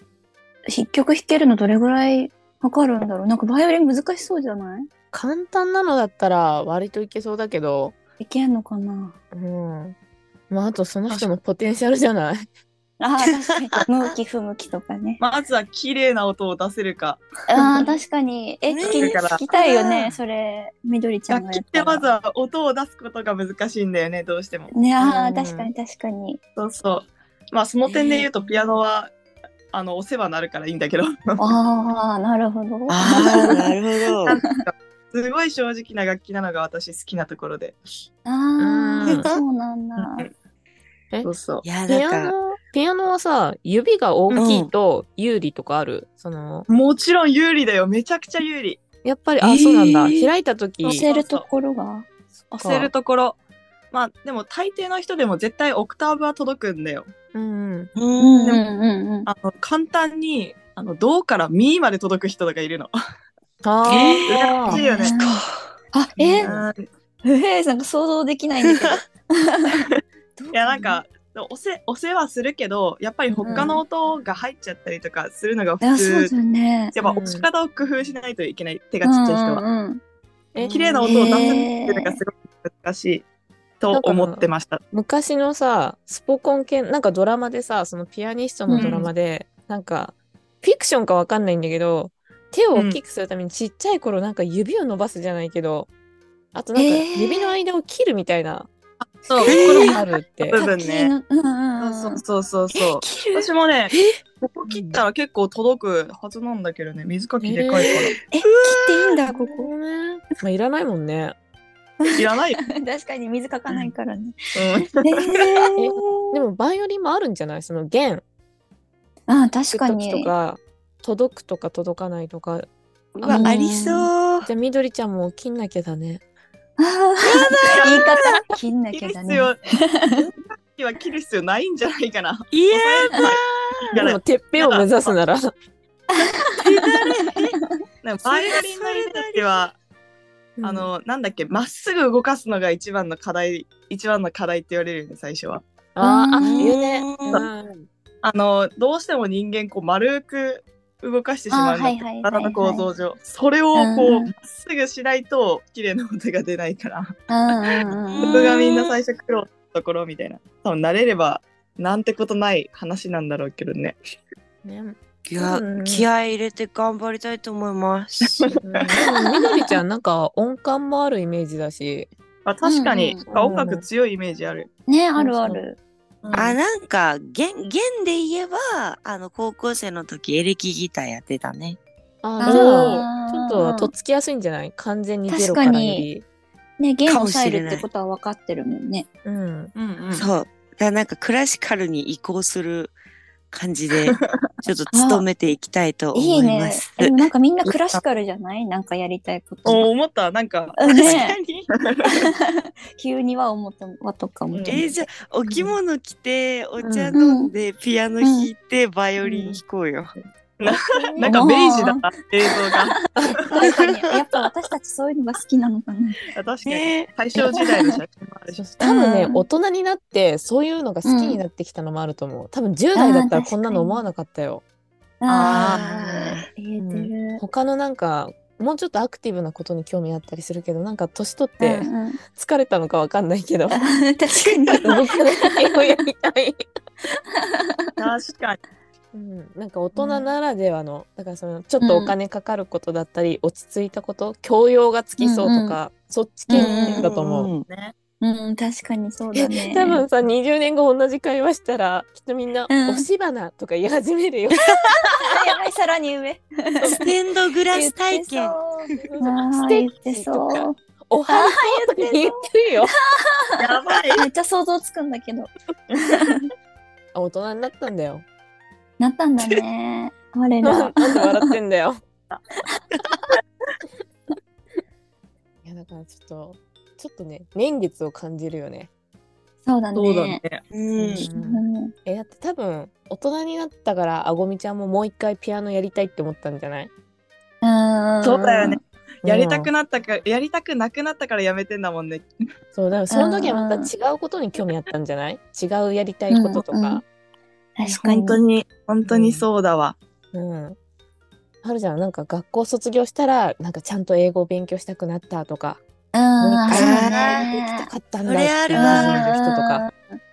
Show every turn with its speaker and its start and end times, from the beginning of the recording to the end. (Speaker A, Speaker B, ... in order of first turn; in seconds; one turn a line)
Speaker A: 0.7-4.9
Speaker B: 5.1-8.0
Speaker A: 8.2-9.2
Speaker B: 9.3-10.0
Speaker B: 10.5-12.5
Speaker A: 13.0-15.2
Speaker C: 15.2-17.8
Speaker A: 17.5-22.1
Speaker D: 18.7-19.2
Speaker C: 19.0-20.1
Speaker C: 21.3-24.7
Speaker A: 24.7-26.4
Speaker B: 25.0-25.7
Speaker C: 26.6-29.1
Speaker D: 27.9-28.3
Speaker C: 29.7-31.5
Speaker A: 31.4-33.7
Speaker D: 32.9-34.4
Speaker A: 34.3-34.5
Speaker C: 34.3-37.8
Speaker A: 38.2-40.3
Speaker B: 38.6-39.3
Speaker D: 39.1-39.4
Speaker C: 40.0-40.3
Speaker C: 41.2-41.6
Speaker D: 41.6-42.3
Speaker B: 41.9-46.7
Speaker D: 44.4-44.7
Speaker C: 46.7-48.8
Speaker B: 49.0-51.0
Speaker D: 49.4-50.3
Speaker C: 50.9-51.5
Speaker A: 50.9-52.1
Speaker C: 52.5-53.4
Speaker B: 52.6-52.9
Speaker C: 53.9-57.1
Speaker B: 57.3-57.9
Speaker D: 58.0-58.6
Speaker A: 58.2-59.3
Speaker C: 59.3-62.9
Speaker B: 63.6-64.8
Speaker D: 63.9-65.7
Speaker C: 64.3-65.2
Speaker A: 64.7-65.4
Speaker A: 65.9-66.5
Speaker B: 66.2-66.6
Speaker C: 66.4-66.9
Speaker A: 67.2-71.0
Speaker D: 68.7-69.0
Speaker C: 70.5-76.3
Speaker A: 73.4-73.8
Speaker B: 73.5-73.7
Speaker A: 75.8-77.0
Speaker C: 76.9-79.7
Speaker B: 77.0-77.5
Speaker A: 79.0-80.0
Speaker B: 80.5-81.6
Speaker C: 80.6-83.3
Speaker D: 80.6-80.9
Speaker A: 81.0-82.1
Speaker C: 83.8-84.8
Speaker B: 83.9-95.9
Speaker A: 88.7-89.0
Speaker C: 88.8-89.1
Speaker C: 92.7-93.0
Speaker B: 96.5-98.7
Speaker A: 96.8-97.5
Speaker C: 99.0-101.1
Speaker A: 99.3-100.0
Speaker D: 99.4-100.0
Speaker B: 99.5-100.6
Speaker A: 100.5-102.2
Speaker C: 101.8-108.1
Speaker A: 102.8-103.5
Speaker D: 103.9-104.2
Speaker B: 104.7-105.0
Speaker B: 107.4-108.0
Speaker D: 108.1-109.1
Speaker A: 108.3-109.7
Speaker B: 109.3-111.4
Speaker A: 112.0-114.3
Speaker C: 112.2-112.6
Speaker C: 114.5-115.6
Speaker A: 115.0-116.1
Speaker B: 115.8-118.2
Speaker A: 119.3-120.3
Speaker B: 119.7-122.7
Speaker D: 123.2-124.5
Speaker A: 123.2-124.1
Speaker B: 124.4-126.2
Speaker A: 126.8-129.6
Speaker D: 127.2-128.4
Speaker C: 127.5-128.0
Speaker C: 128.9-129.6
Speaker C: 130.5-133.4
Speaker D: 132.5-133.9
Speaker C: 133.9-135.2
Speaker B: 134.0-135.5
Speaker A: 136.2-136.6
Speaker C: 136.2-137.5
Speaker C: 138.0-139.8
Speaker D: 138.2-139.6
Speaker B: 140.6-140.9
Speaker C: 140.6-145.6
Speaker B: 146.0-147.9
Speaker A: 146.0-146.7
Speaker D: 146.4-147.4
Speaker C: 148.2-157.2
Speaker A: 151.5-152.8
Speaker A: 153.8-154.3
Speaker A: 157.3-158.4
Speaker C: 157.7-164.0
Speaker D: 158.1-159.0
Speaker B: 164.6-166.1
Speaker D: 165.3-168.6
Speaker B: 168.6-172.1
Speaker C: 172.4-174.7
Speaker A: 172.6-173.2
Speaker B: 173.3-173.8
Speaker A: 174.9-175.8
Speaker B: 175.2-175.6
Speaker C: 176.2-176.6
Speaker D: 176.3-181.8
Speaker B: 182.2-186.2
Speaker A: 182.4-183.9
Speaker C: 182.4-183.1
Speaker A: 185.3-186.1
Speaker A: 186.8-189.1
Speaker D: 187.1-187.9
Speaker B: 189.2-189.7
Speaker C: 189.8-190.3
Speaker D: 190.1-192.9
Speaker D: 193.5-197.3
Speaker A: 194.9-195.2
Speaker A: 196.1-199.9
Speaker C: 197.7-198.0
Speaker C: 199.7-201.2
Speaker A: 200.8-201.4
Speaker D: 200.9-201.7
Speaker C: 201.9-202.3
Speaker A: 202.9-205.1
Speaker C: 204.5-204.9
Speaker D: 204.7-210.2
Speaker B: 206.8-207.2
Speaker A: 207.1-207.5
Speaker A: 208.2-208.5
Speaker C: 210.6-213.0
Speaker D: 210.9-211.4
Speaker A: 211.2-212.0
Speaker B: 213.2-213.4
Speaker A: 213.5-216.2
Speaker D: 213.6-214.4
Speaker C: 216.3-218.6
Speaker D: 216.7-217.1
Speaker A: 217.4-217.8
Speaker B: 218.6-224.6
Speaker A: 218.8-219.4
Speaker A: 221.1-221.4
Speaker A: 222.9-224.0
Speaker A: 225.2-227.4
Speaker C: 225.3-225.8
Speaker B: 225.4-225.7
Speaker D: 225.7-226.5
Speaker B: 226.8-233.9
Speaker A: 231.6-232.2
Speaker A: 233.7-235.7
Speaker B: 234.8-236.6
Speaker A: 237.4-237.7
Speaker C: 238.0-238.6
Speaker B: 239.1-247.5
Speaker A: 239.9-240.2
Speaker A: 241.8-242.2
Speaker A: 245.2-245.8
Speaker A: 246.5-247.1
Speaker D: 246.6-247.6
Speaker C: 247.7-247.9
Speaker A: 248.2-250.1
Speaker B: 249.3-255.2
Speaker A: 252.7-253.1
Speaker A: 255.2-257.0
Speaker D: 256.8-258.6
Speaker A: 257.7-262.4
Speaker B: 259.0-262.9
Speaker C: 263.6-264.3
Speaker A: 264.2-265.5
Speaker A: 266.1-266.4
Speaker B: 267.1-268.2
Speaker A: 269.0-271.5
Speaker B: 270.6-272.0
Speaker B: 275.6-278.9
Speaker A: 279.6-280.4
Speaker C: 279.9-280.6
Speaker D: 280.7-281.3
Speaker B: 281.0-286.9
Speaker A: 281.2-281.9
Speaker A: 287.6-288.8
Speaker C: 288.2-292.3
Speaker B: 289.2-289.7
Speaker B: 292.7-297.0
Speaker A: 293.1-293.9
Speaker A: 296.3-297.0
Speaker A: 297.8-298.4
Speaker C: 297.8-300.0
Speaker B: 299.1-299.5
Speaker B: 300.3-300.8
Speaker B: 301.6-305.8
Speaker A: 306.1-307.9
Speaker B: 306.4-309.9
Speaker D: 306.7-307.5
Speaker D: 308.2-309.3
Speaker A: 308.7-310.2
Speaker C: 308.9-309.2